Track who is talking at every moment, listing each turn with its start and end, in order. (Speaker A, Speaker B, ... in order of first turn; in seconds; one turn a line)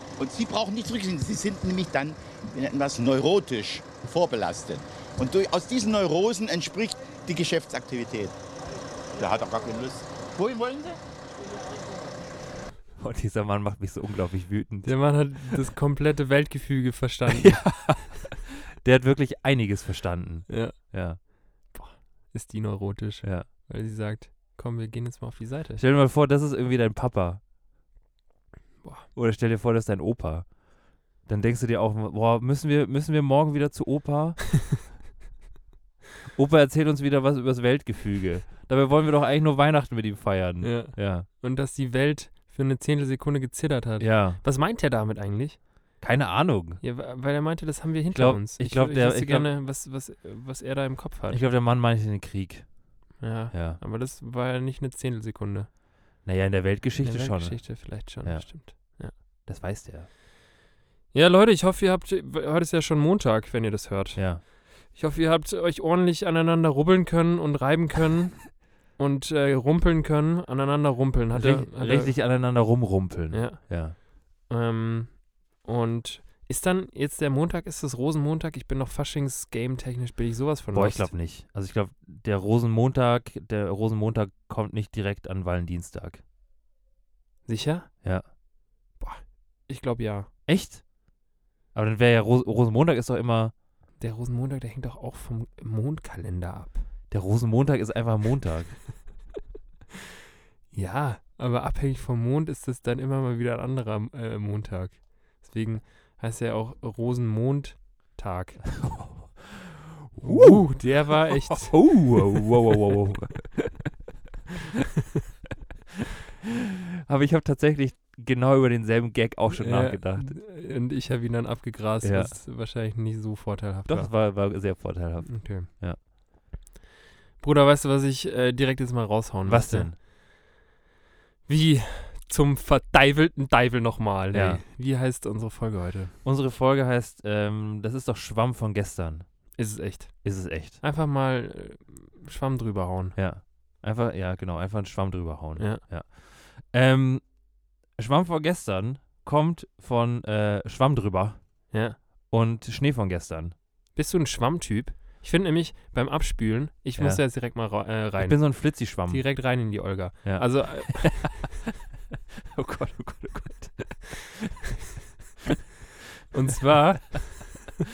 Speaker A: 0.2-8.3
Speaker A: 9.2-11.0
Speaker B: 13.0-15.6
Speaker C: 14.8-17.9
Speaker B: 17.2-21.2
Speaker C: 20.5-25.8
Speaker B: 23.2-23.5
Speaker B: 25.8-27.4
Speaker C: 28.8-29.1
Speaker B: 29.1-30.6
Speaker B: 31.2-34.9
Speaker B: 36.3-41.3
Speaker C: 40.6-45.6
Speaker B: 44.0-44.4
Speaker B: 46.0-46.8
Speaker C: 46.8-51.4
Speaker B: 48.1-49.5
Speaker B: 51.3-52.8
Speaker C: 53.2-55.7
Speaker B: 53.5-53.8
Speaker B: 56.2-60.1
Speaker C: 57.0-59.1
Speaker C: 61.1-72.2
Speaker B: 64.2-64.4
Speaker B: 71.3-74.0
Speaker C: 73.3-81.1
Speaker B: 80.7-86.2
Speaker C: 87.5-87.9
Speaker C: 89.0-90.3
Speaker B: 90.5-90.8
Speaker B: 91.7-93.5
Speaker C: 94.0-96.8
Speaker B: 97.1-98.9
Speaker C: 100.7-108.9
Speaker B: 108.8-113.9
Speaker C: 110.2-112.4
Speaker B: 117.0-120.4
Speaker C: 119.5-124.6
Speaker B: 122.0-122.4
Speaker B: 123.9-126.0
Speaker C: 125.2-125.7
Speaker C: 127.4-130.0
Speaker B: 129.4-130.0
Speaker C: 131.5-136.1
Speaker B: 134.3-134.6
Speaker B: 136.2-139.5
Speaker C: 139.6-143.2
Speaker B: 140.2-140.8
Speaker B: 143.1-147.4
Speaker C: 145.6-145.8
Speaker B: 147.9-151.7
Speaker C: 151.7-152.0
Speaker B: 152.3-153.5
Speaker C: 153.9-161.5
Speaker B: 157.0-157.4
Speaker B: 158.2-161.5
Speaker B: 162.5-164.5
Speaker C: 166.3-167.6